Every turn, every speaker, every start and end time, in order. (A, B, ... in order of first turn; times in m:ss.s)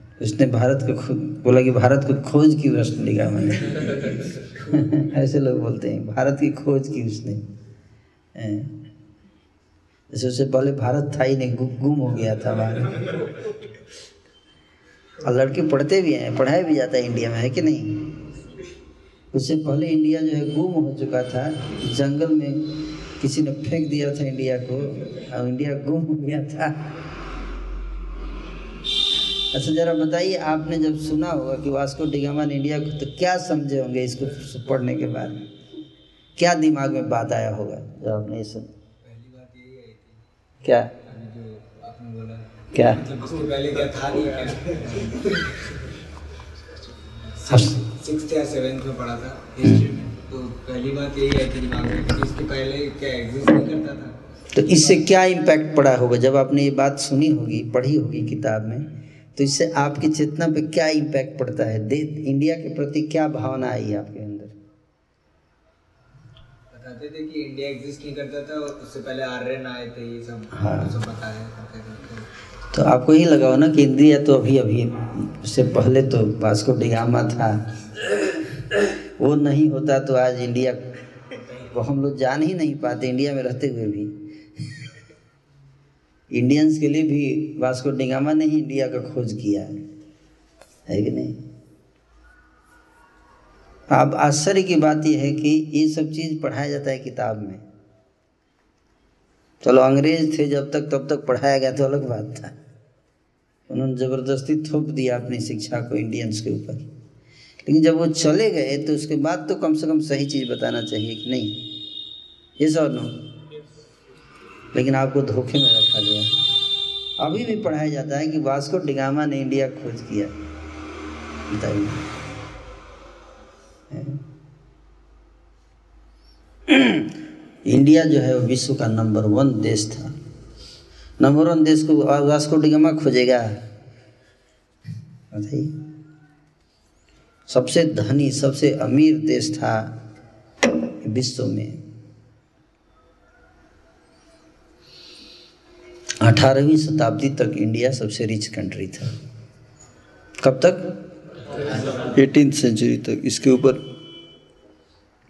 0:00.2-0:07.4 A
0:08.4-0:08.7 A
0:10.1-0:13.0 A
0:15.2-0:18.1 A
0:19.3-0:26.8 A
0:29.5-0:35.4 A
0:36.4-0:38.7 A
0:39.0-0:40.2 B
0:40.6-0:40.9 A
0:41.0-0:45.4 B
0:42.8-0:43.0 A
0:47.1-0:54.1 B
0:54.5-0:58.8 A
0:54.7-0:55.0 B
0:59.4-1:04.5 A
1:06.7-1:12.3 B
1:10.5-1:10.9 A
1:12.7-1:17.6 A
1:19.2-1:20.8 A
1:21.7-1:24.1 A
1:26.3-1:29.7 A
1:30.9-1:31.4 A
1:33.9-1:37.6 A
1:39.6-1:42.5 A
1:43.7-1:46.8 A
1:47.6-1:51.6 A
1:52.6-1:53.1 A
1:54.7-1:56.3 A
1:57.2-2:00.3 A
2:01.5-2:02.0 A
2:03.9-2:04.2 A
2:06.7-2:07.0 A
2:07.7-2:10.2 A
2:11.2-2:13.5 A
2:15.3-2:15.7 A
2:17.5-2:19.9 A
2:21.0-2:21.8 A
2:26.2-2:29.1 A
2:30.4-2:30.9 A
2:32.0-2:33.8 A